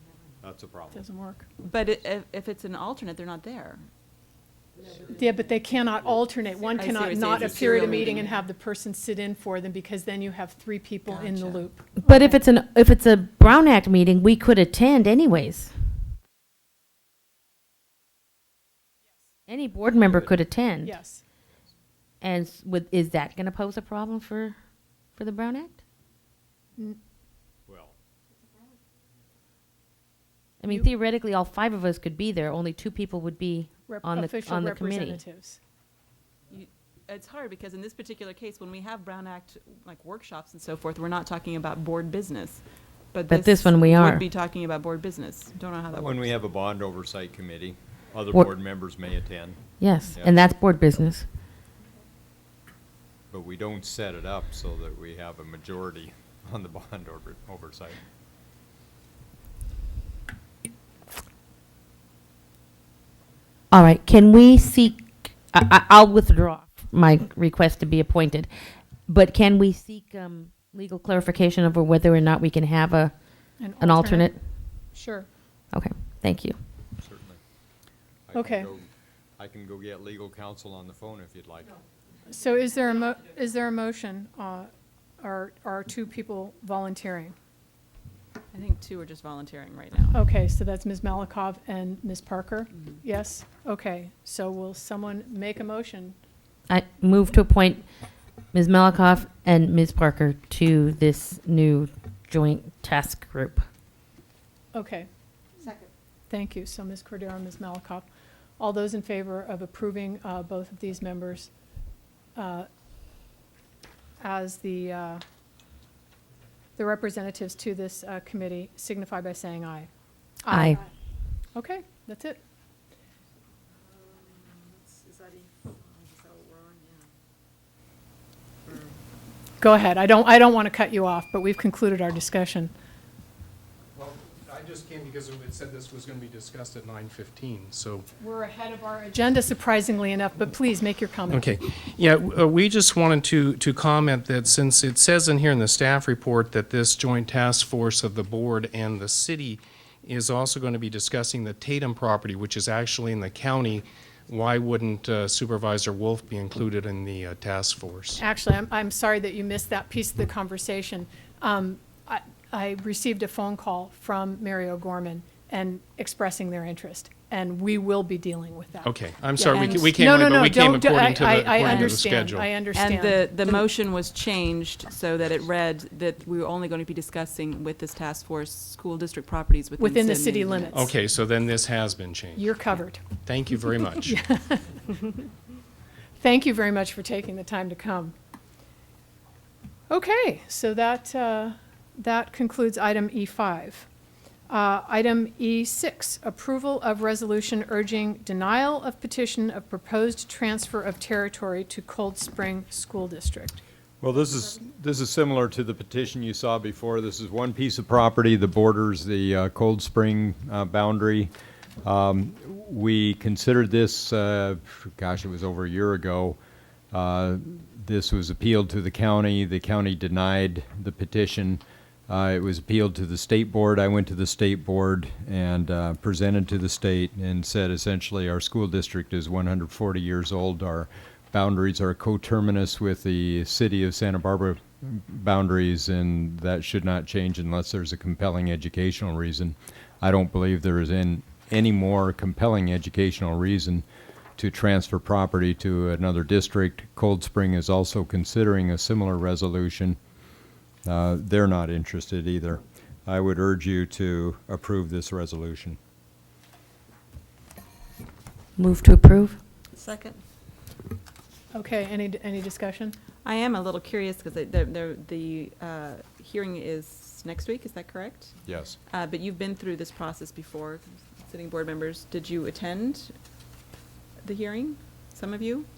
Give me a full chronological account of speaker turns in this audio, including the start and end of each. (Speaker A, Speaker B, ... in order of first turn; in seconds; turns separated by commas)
Speaker A: 0.4-1.0, Speaker B: 0.9-1.4, Speaker C: 1.6-3.8, Speaker B: 4.9-12.4, Speaker C: 6.7-8.4, Speaker A: 7.3-8.1, Speaker C: 11.1-11.6, Speaker D: 12.0-15.7, Speaker D: 19.5-20.9, Speaker A: 19.9-20.4, Speaker B: 20.8-21.2, Speaker D: 22.2-24.6, Speaker D: 25.1-25.8, Speaker A: 27.7-27.9, Speaker D: 30.6-35.2, Speaker B: 33.9-35.6, Speaker C: 36.5-46.3, Speaker D: 43.3-44.2, Speaker A: 45.9-49.6, Speaker D: 49.8-51.2, Speaker A: 50.1-50.4, Speaker A: 53.3-58.0, Speaker D: 63.7-68.5, Speaker D: 69.1-73.1, Speaker B: 73.6-74.3, Speaker D: 73.8-74.4, Speaker B: 74.9-75.3, Speaker D: 75.7-76.5, Speaker A: 77.0-77.4, Speaker A: 78.3-81.7, Speaker B: 78.3-78.7, Speaker B: 82.3-84.7, Speaker B: 85.2-87.3, Speaker C: 88.5-90.2, Speaker B: 90.1-96.2, Speaker D: 96.7-97.8, Speaker D: 98.5-103.6, Speaker B: 104.7-105.1, Speaker B: 106.3-108.1, Speaker B: 108.6-111.5, Speaker B: 112.3-112.7, Speaker B: 114.2-115.2, Speaker B: 116.8-119.9, Speaker B: 120.4-120.9, Speaker D: 120.5-120.8, Speaker B: 121.5-122.4, Speaker C: 124.9-125.7, Speaker C: 126.2-126.7, Speaker B: 129.6-132.7, Speaker E: 133.9-138.1, Speaker B: 138.2-141.5, Speaker E: 141.3-158.2, Speaker B: 158.2-173.6, Speaker E: 168.8-172.5, Speaker C: 169.5-170.1, Speaker C: 172.7-180.8, Speaker B: 179.8-180.9, Speaker E: 180.7-182.5, Speaker B: 182.4-183.2, Speaker E: 183.2-184.2, Speaker B: 184.0-185.0, Speaker B: 186.2-188.1, Speaker B: 189.9-193.8, Speaker B: 194.5-203.6, Speaker A: 204.0-211.3, Speaker A: 211.8-216.4, Speaker A: 216.9-243.8, Speaker A: 244.4-250.0, Speaker A: 250.8-255.8, Speaker D: 258.6-259.4, Speaker C: 259.7-260.2, Speaker B: 261.5-263.0, Speaker C: 263.2-268.4, Speaker A: 268.4-268.8, Speaker C: 268.9-273.1, Speaker C: 274.2-275.7